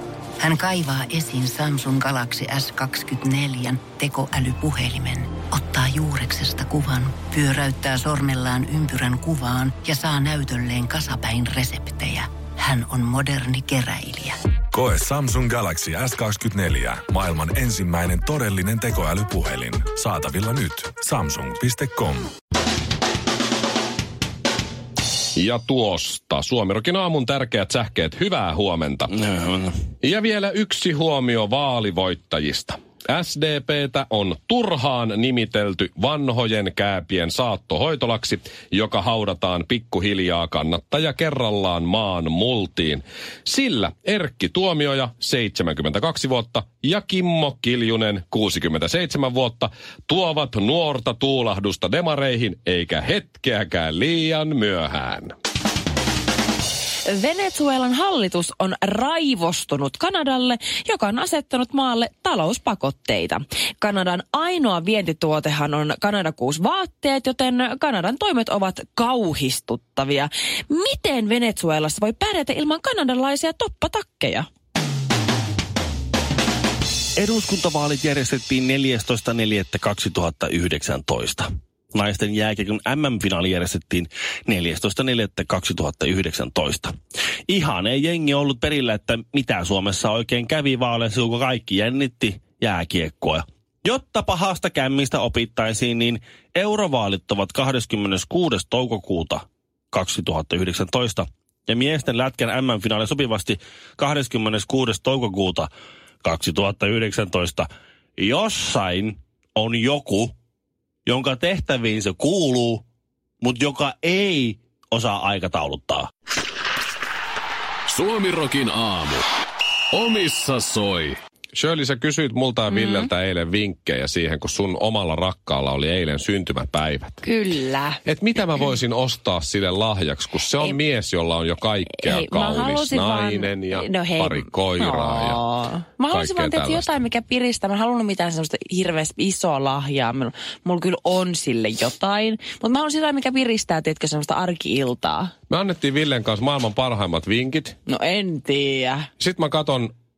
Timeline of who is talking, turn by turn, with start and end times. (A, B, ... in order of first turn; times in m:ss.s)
0:00.4-0:14.4 A
0:14.7-0:22.3 B
0:25.3-0:29.1 C
0:29.2-0:29.8 D
0:30.0-0:55.3 C
0:57.0-1:14.5 E
1:17.2-1:26.9 D
1:27.5-1:45.7 D
1:46.2-1:50.4 D
1:51.1-1:52.8 D
1:53.4-1:56.1 D
1:57.9-1:59.2 F
1:59.9-2:01.2 F
2:01.5-2:07.2 C
2:02.7-2:03.1 E
2:07.2-2:08.0 E
2:08.0-2:15.4 C
2:11.9-2:25.3 E
2:16.1-2:17.0 C
2:25.5-2:27.8 C
2:27.9-2:29.1 E
2:29.2-2:29.9 C